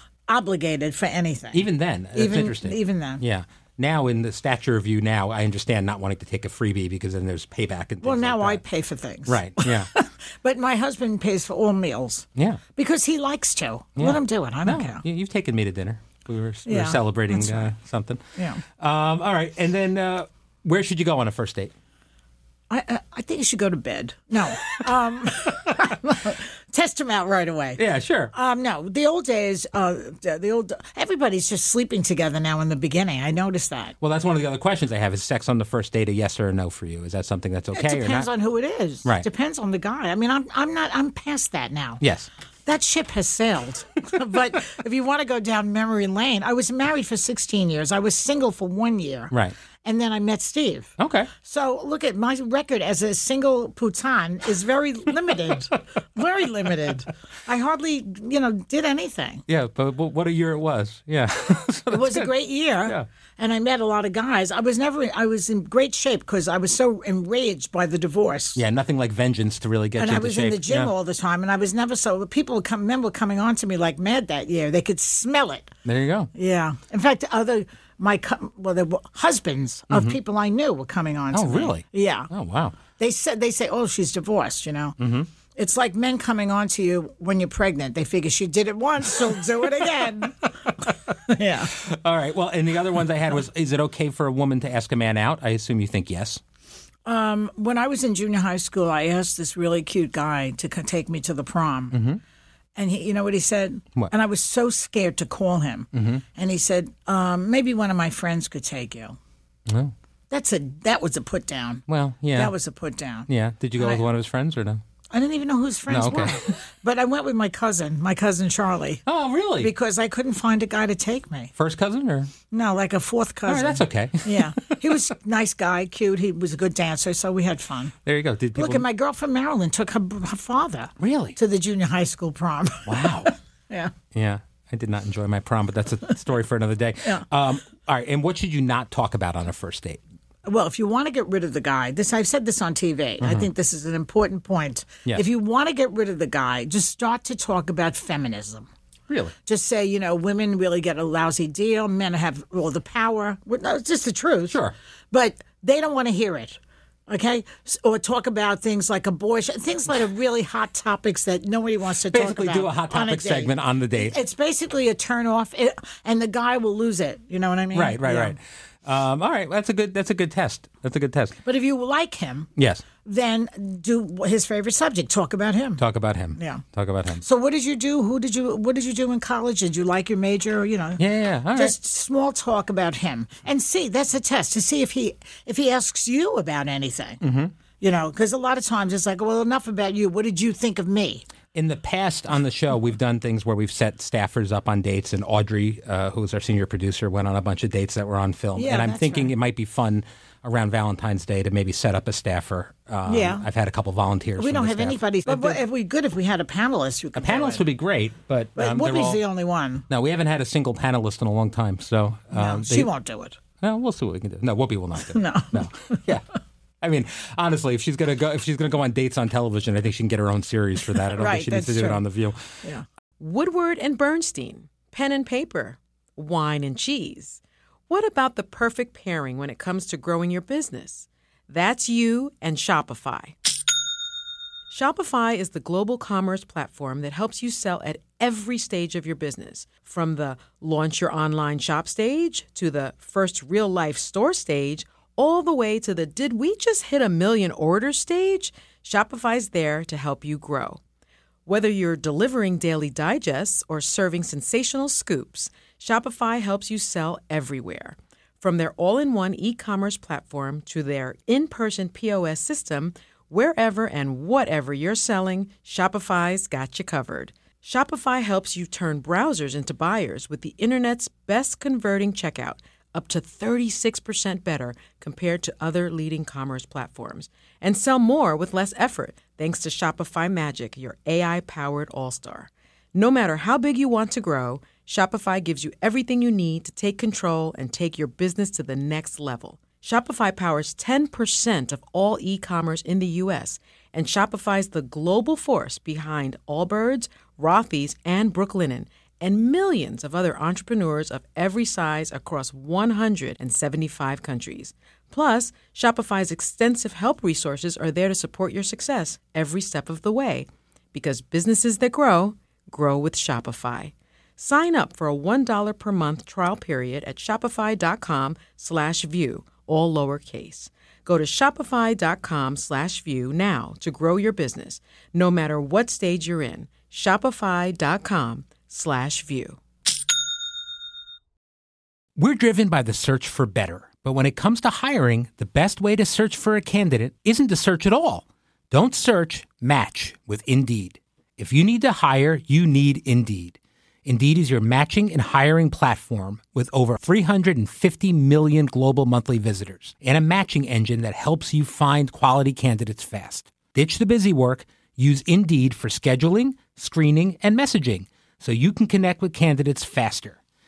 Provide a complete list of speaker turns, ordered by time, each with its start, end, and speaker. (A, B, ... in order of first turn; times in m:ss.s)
0:00.3-0:03.2 A
0:01.5-0:08.6 B
0:08.0-0:15.0 A
0:09.2-0:09.9 B
0:12.4-0:12.6 B
0:14.0-0:21.7 B
0:16.7-0:17.7 A
0:18.4-0:18.6 A
0:22.7-0:27.8 A
0:27.8-0:28.3 B
0:28.3-0:34.0 A
0:34.0-0:38.3 B
0:37.7-0:42.0 A
0:42.0-0:42.3 B
0:42.6-0:49.3 A
0:49.8-0:59.4 A
0:51.0-0:51.3 B
0:59.5-1:02.3 B
1:01.9-1:08.6 A
1:08.6-1:10.9 B
1:10.0-1:15.7 A
1:15.8-1:16.3 B
1:16.3-1:22.3 A
1:19.9-1:20.2 B
1:21.3-1:22.8 B
1:22.9-1:25.0 A
1:25.0-1:25.3 B
1:25.5-1:31.7 A
1:29.8-1:30.8 B
1:31.6-1:36.4 B
1:37.0-1:42.0 A
1:41.9-1:42.2 B
1:42.8-1:49.2 A
1:45.9-1:46.2 B
1:49.7-1:49.9 B
1:50.3-1:54.0 A
1:51.9-1:52.5 B
1:53.3-1:54.8 B
1:55.1-1:59.0 A
1:55.9-1:56.4 B
1:59.1-1:59.7 B
1:59.6-2:01.5 A
2:01.6-2:02.3 B
2:02.5-2:07.9 A
2:03.4-2:05.0 B
2:08.0-2:08.8 B
2:08.6-2:13.9 A
2:11.0-2:11.4 B
2:12.8-2:13.3 B
2:14.1-2:20.0 B
2:20.4-2:28.7 A
2:23.2-2:23.5 B
2:29.1-2:29.3 B
2:29.4-2:34.6 A
2:34.5-2:34.7 B
2:35.1-2:48.4 A
2:42.1-2:44.2 B
2:47.7-2:51.4 B
2:51.4-2:55.8 A
2:52.6-2:52.8 B
2:55.8-2:57.2 B
2:56.4-2:56.6 A
2:57.2-3:01.0 A
3:01.0-3:01.8 B
3:01.5-3:07.2 A
3:07.2-3:07.5 B
3:07.8-3:11.2 A
3:11.5-3:25.6 B
3:18.6-3:19.3 A
3:23.1-3:23.4 A
3:24.4-3:27.6 A
3:27.1-3:29.2 B
3:28.6-3:29.8 A
3:29.9-3:32.9 B
3:32.3-3:33.4 A
3:33.6-3:36.2 B
3:35.1-3:36.0 A
3:36.8-3:42.4 B
3:41.1-3:42.0 A
3:43.2-3:53.3 C
3:54.7-4:10.8 C
4:11.4-5:29.6 C
5:32.2-6:00.4 B